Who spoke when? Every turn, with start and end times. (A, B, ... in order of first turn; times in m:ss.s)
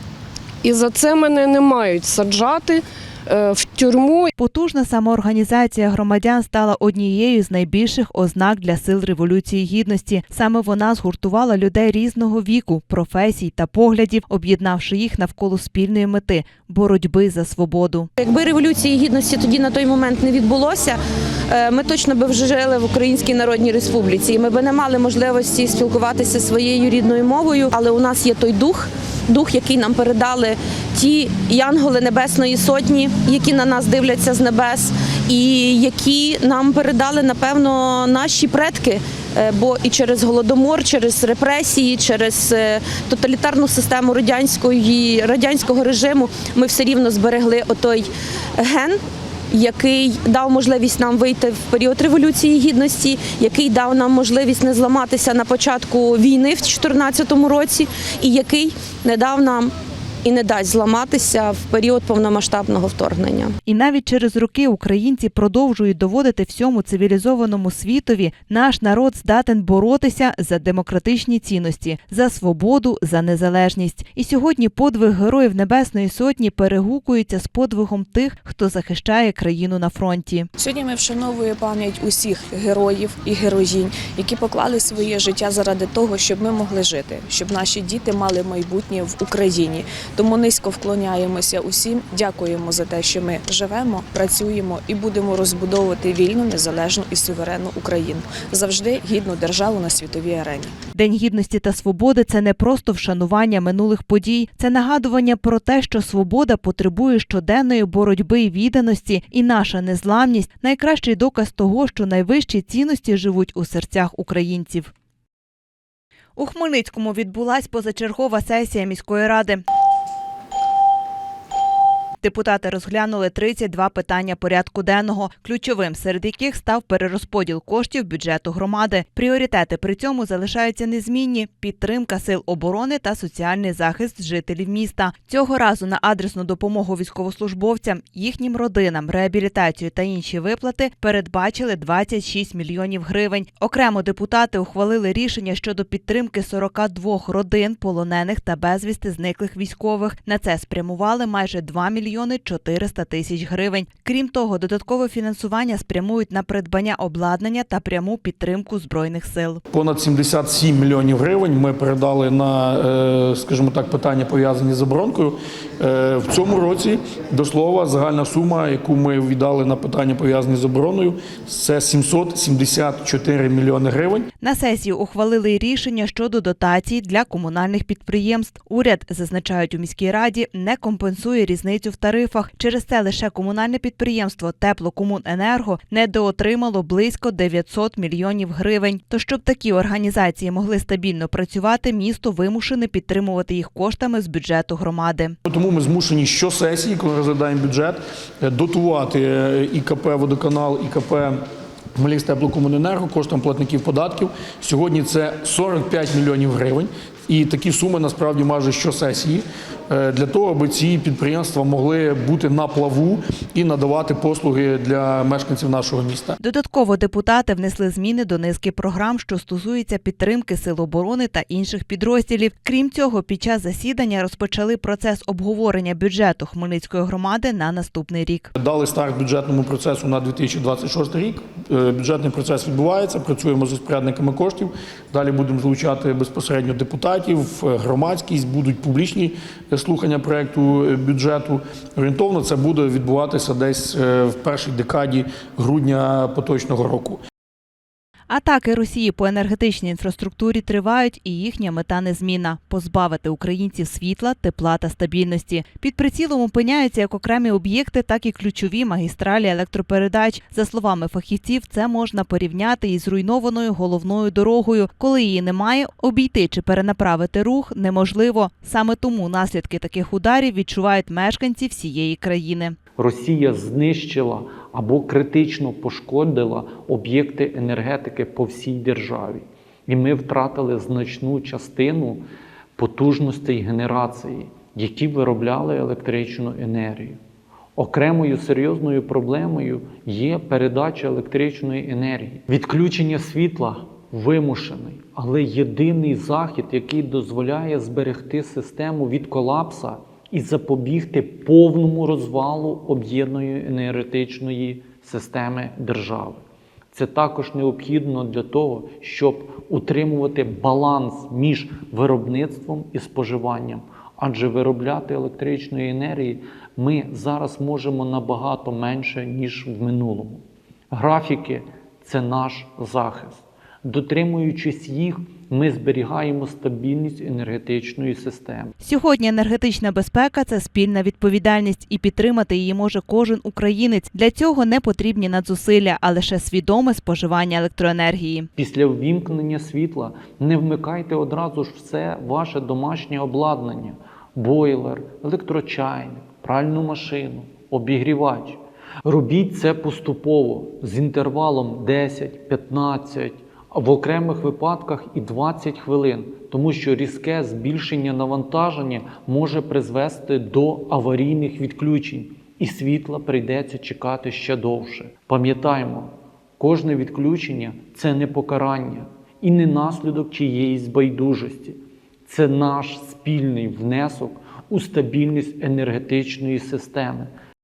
0:00.6-0:04.3 A
0:04.4-0:18.1 B
0:18.2-1:03.6 C
1:03.6-1:20.5 B
1:20.6-1:40.7 D
1:40.9-1:54.9 B
1:56.4-1:59.6 B
2:02.2-2:39.6 B
2:39.7-2:54.2 E
2:54.4-3:15.4 B
3:15.4-3:21.4 E
3:22.0-3:36.4 E
3:36.4-3:48.5 B
3:48.6-4:07.2 E
4:08.3-4:32.8 B
4:33.0-4:42.2 F
4:42.8-4:47.2 F
4:47.8-5:28.7 F
5:28.8-5:38.5 B
5:38.6-6:17.3 F